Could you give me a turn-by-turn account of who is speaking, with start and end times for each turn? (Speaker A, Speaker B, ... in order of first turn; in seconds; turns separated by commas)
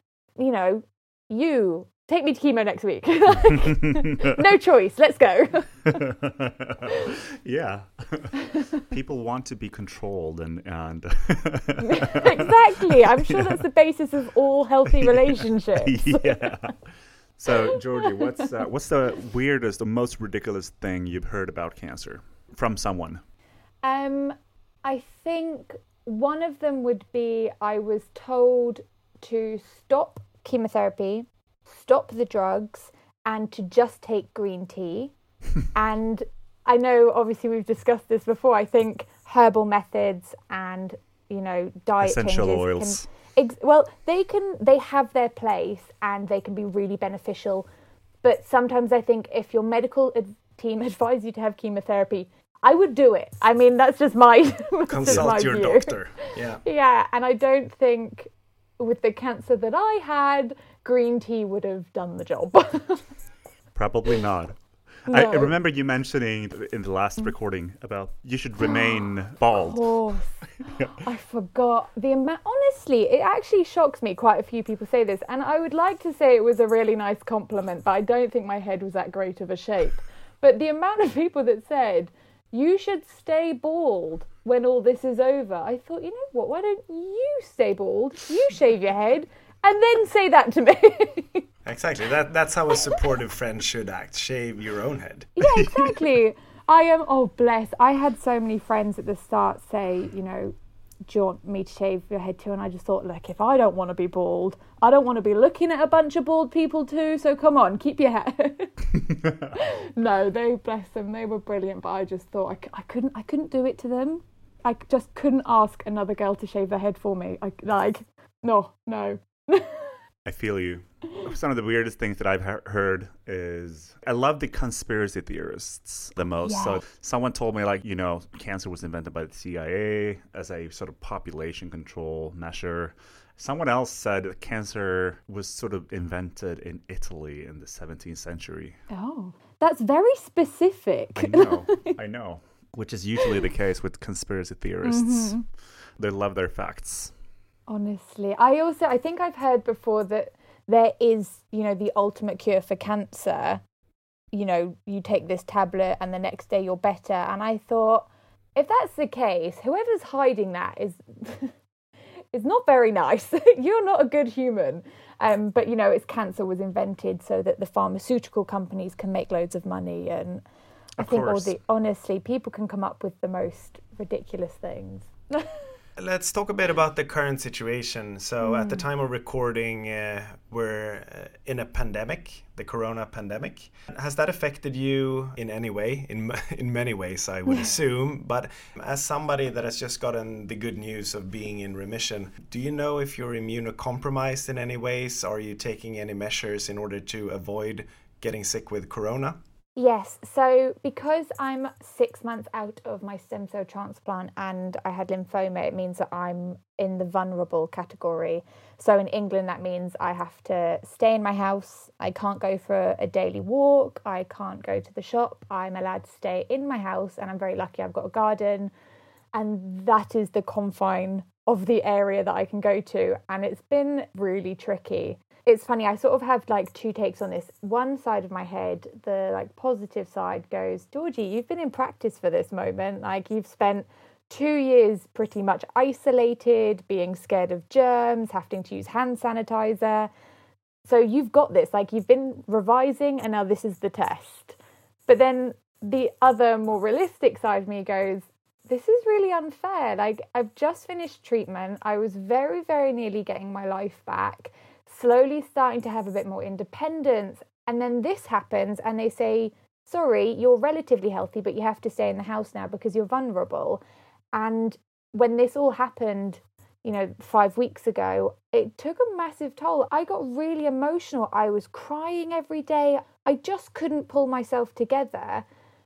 Speaker A: 0.4-6.0, Speaker B: 5.9-12.5, Speaker A: 11.9-16.4, Speaker B: 14.9-23.2, Speaker A: 23.8-35.1, Speaker A: 35.7-47.7, Speaker B: 42.0-43.0, Speaker A: 48.2-63.0, Speaker C: 54.9-56.6, Speaker B: 55.1-55.3, Speaker B: 63.7-71.0, Speaker A: 65.1-65.5, Speaker A: 68.6-91.5, Speaker C: 91.6-95.3, Speaker A: 95.4-100.5, Speaker A: 101.1-108.8, Speaker A: 109.5-119.9, Speaker B: 120.2-138.8, Speaker A: 126.4-126.8, Speaker A: 138.9-141.9, Speaker B: 141.1-147.1, Speaker A: 144.8-145.4, Speaker A: 147.7-153.6, Speaker A: 154.3-161.5, Speaker A: 162.3-170.4, Speaker B: 171.0-171.5, Speaker A: 171.0-175.6, Speaker C: 176.0-199.4, Speaker A: 178.4-178.8, Speaker A: 199.8-218.7, Speaker A: 219.3-240.1, Speaker A: 240.8-263.8, Speaker A: 264.3-275.4